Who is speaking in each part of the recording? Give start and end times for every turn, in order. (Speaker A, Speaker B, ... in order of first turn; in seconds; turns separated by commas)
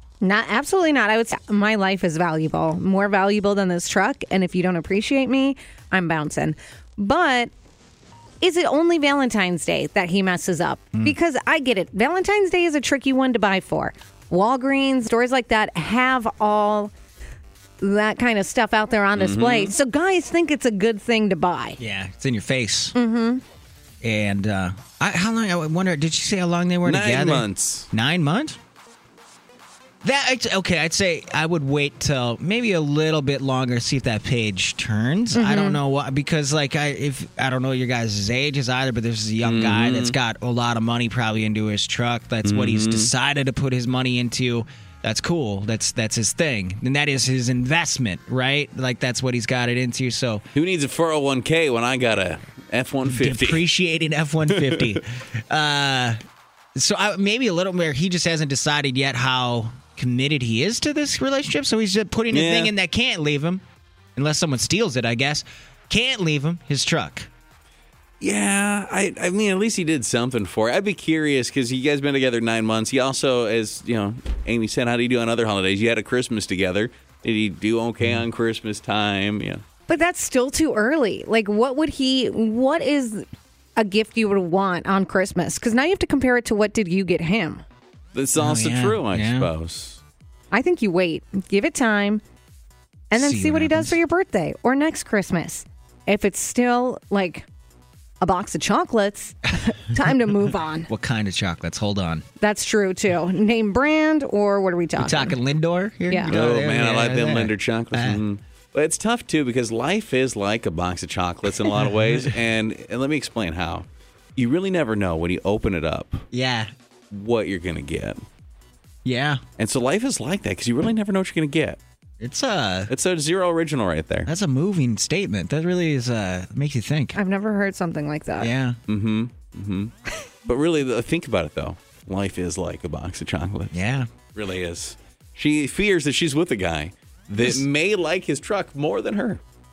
Speaker A: 0.2-7.5, Speaker A: 8.4-16.9, Speaker A: 17.8-21.8, Speaker B: 19.1-19.7, Speaker C: 21.8-22.9, Speaker A: 22.9-23.4, Speaker C: 24.0-28.6, Speaker B: 26.8-27.9, Speaker C: 30.0-50.4, Speaker A: 35.3-35.8, Speaker B: 39.4-40.2, Speaker B: 42.4-43.1, Speaker B: 50.5-53.6, Speaker C: 53.0-56.2, Speaker C: 56.8-63.6, Speaker B: 62.3-62.7, Speaker C: 64.2-67.3, Speaker B: 68.2-79.6, Speaker A: 79.9-83.2, Speaker A: 83.8-87.6, Speaker B: 88.1-90.0, Speaker C: 88.4-89.5, Speaker A: 90.5-92.2, Speaker A: 93.1-97.5, Speaker C: 93.2-93.9, Speaker A: 98.2-100.9, Speaker C: 100.9-102.2, Speaker A: 102.4-105.3, Speaker C: 105.0-108.2, Speaker B: 106.2-116.2, Speaker C: 111.6-112.3, Speaker C: 116.3-116.7, Speaker B: 117.1-118.2, Speaker C: 119.0-119.4, Speaker B: 119.6-121.8, Speaker C: 122.2-122.9, Speaker B: 122.9-124.3, Speaker C: 124.2-127.2, Speaker A: 127.1-128.5, Speaker C: 128.4-128.8, Speaker B: 128.9-129.9, Speaker B: 130.4-133.8, Speaker C: 133.7-134.1, Speaker B: 134.3-139.4